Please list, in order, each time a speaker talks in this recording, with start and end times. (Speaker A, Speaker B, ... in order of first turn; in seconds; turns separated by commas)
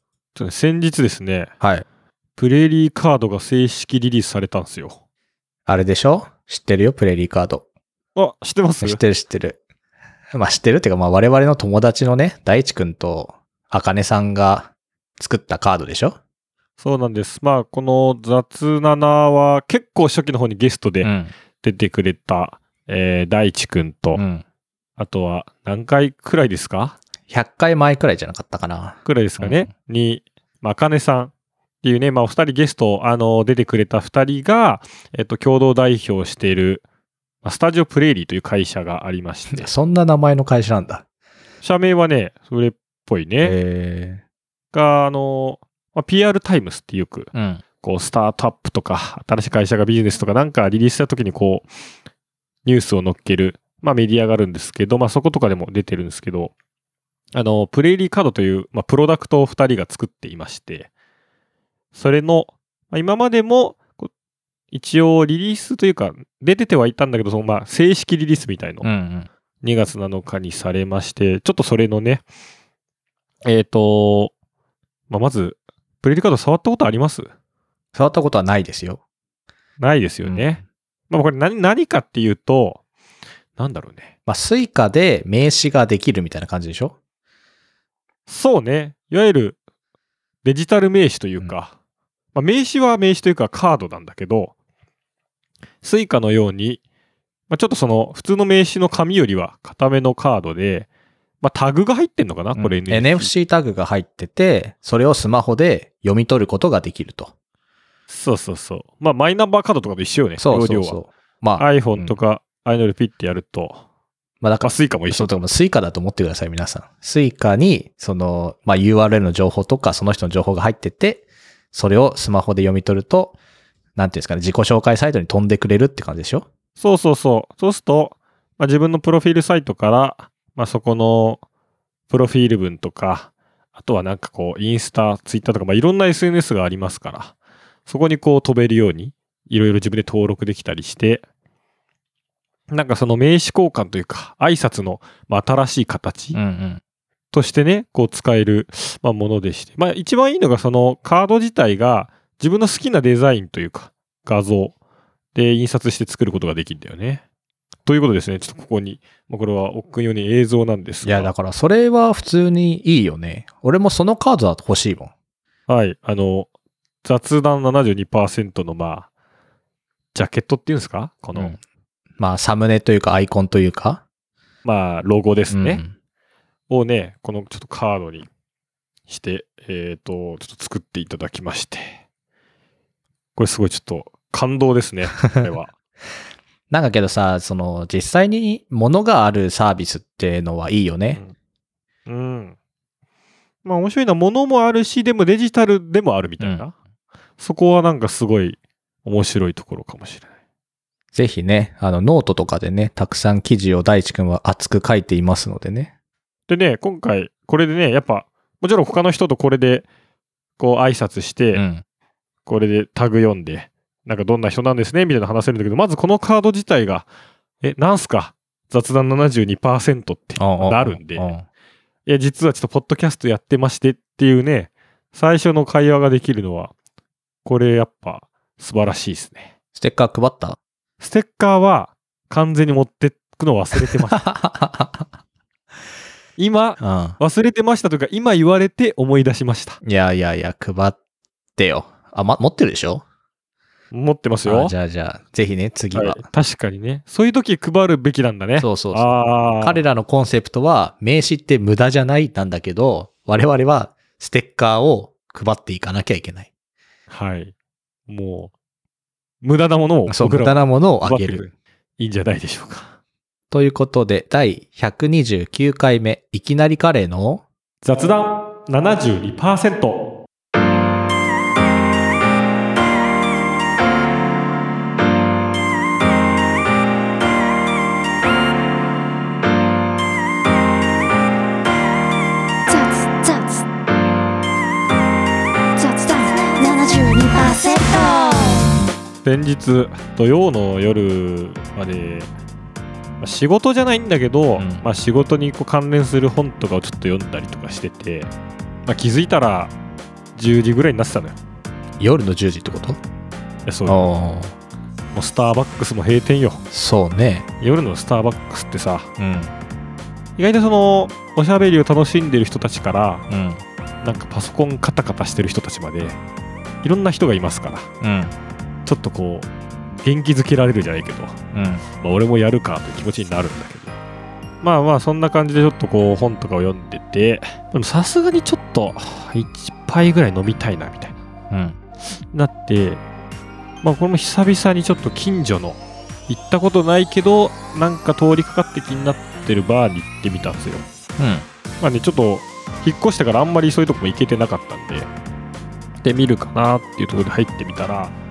Speaker A: 0.3-1.5, Speaker A: 2.4-5.0, Speaker B: 5.7-7.6, Speaker A: 8.2-9.0, Speaker B: 8.8-9.6, Speaker B: 10.3-16.2, Speaker A: 16.8-21.1, Speaker B: 21.0-21.3, Speaker A: 21.6-24.2, Speaker B: 24.1-24.4, Speaker A: 25.0-27.0, Speaker B: 27.3-29.7, Speaker A: 29.0-31.3, Speaker A: 31.8-36.8, Speaker A: 37.4-39.7, Speaker B: 39.5-41.0, Speaker A: 41.6-43.6, Speaker B: 43.4-44.2, Speaker A: 44.7-47.3, Speaker B: 47.3-47.6, Speaker A: 47.8-51.7, Speaker A: 52.6-56.5, Speaker A: 57.3-60.9, Speaker A: 61.9-64.1, Speaker A: 64.7-68.9, Speaker B: 68.8-69.3, Speaker A: 69.6-72.2, Speaker A: 73.4-74.3, Speaker A: 75.1-77.3, Speaker B: 77.9-79.0, Speaker A: 79.8-82.8, Speaker B: 80.2-80.6, Speaker A: 83.6-84.1, Speaker B: 84.2-86.9, Speaker A: 88.3-89.6, Speaker A: 90.4-91.7, Speaker A: 92.3-94.5, Speaker A: 95.8-96.8, Speaker A: 97.5-100.9, Speaker A: 101.4-103.3, Speaker B: 102.5-107.3, Speaker A: 108.1-111.0, Speaker B: 110.4-112.2, Speaker A: 111.6-113.8, Speaker B: 114.4-123.4, Speaker A: 114.6-115.4, Speaker B: 124.0-126.5, Speaker A: 126.8-131.4, Speaker A: 132.1-137.3, Speaker A: 137.9-141.2, Speaker A: 142.7-146.4, Speaker B: 146.3-146.8, Speaker A: 147.3-154.8, Speaker A: 155.3-157.2, Speaker A: 157.8-161.3, Speaker B: 161.0-165.1, Speaker A: 165.7-166.5, Speaker A: 167.0-169.1, Speaker A: 170.1-171.5, Speaker B: 171.3-171.6, Speaker B: 172.2-174.0, Speaker A: 174.7-175.8, Speaker B: 175.5-175.9, Speaker A: 176.7-178.3, Speaker A: 179.1-182.0, Speaker A: 183.3-185.7, Speaker B: 186.7-191.2, Speaker A: 192.1-192.5, Speaker A: 193.6-196.7, Speaker A: 197.4-200.3, Speaker B: 201.1-205.9, Speaker A: 206.5-209.9, Speaker A: 210.6-211.6, Speaker B: 211.5-211.8, Speaker A: 212.4-217.1, Speaker A: 217.6-221.3, Speaker B: 220.4-221.4, Speaker A: 222.1-226.7, Speaker A: 227.4-229.5, Speaker B: 229.8-230.6, Speaker A: 231.0-234.2, Speaker B: 233.8-235.1, Speaker A: 236.4-239.8, Speaker B: 236.8-237.2, Speaker B: 239.8-241.0, Speaker B: 241.6-243.0, Speaker A: 243.9-244.7, Speaker B: 244.4-246.2, Speaker A: 245.9-249.8, Speaker B: 248.6-256.5, Speaker A: 257.1-257.5, Speaker A: 258.1-258.5, Speaker A: 259.4-262.9, Speaker B: 260.1-261.5, Speaker B: 263.5-267.4, Speaker A: 267.8-270.1, Speaker C: 282.7-283.6, Speaker C: 285.8-288.6, Speaker A: 289.2-292.3, Speaker A: 293.2-298.3, Speaker B: 294.6-294.8, Speaker A: 298.8-299.7, Speaker A: 300.3-301.4, Speaker B: 302.0-303.0, Speaker A: 303.6-304.1, Speaker B: 303.9-304.5, Speaker A: 305.1-306.6, Speaker B: 306.7-307.5, Speaker A: 307.6-309.1, Speaker B: 309.2-309.6, Speaker A: 310.4-313.2, Speaker B: 313.3-313.6, Speaker A: 314.0-316.2, Speaker A: 316.8-317.9, Speaker B: 318.0-318.4, Speaker A: 318.9-319.5, Speaker A: 320.0-321.4, Speaker B: 321.5-321.8, Speaker A: 322.0-323.9, Speaker A: 324.6-331.1, Speaker B: 331.5-331.8, Speaker A: 332.3-333.0, Speaker A: 333.8-340.8, Speaker B: 341.2-341.4, Speaker A: 341.8-345.1, Speaker A: 346.0-348.1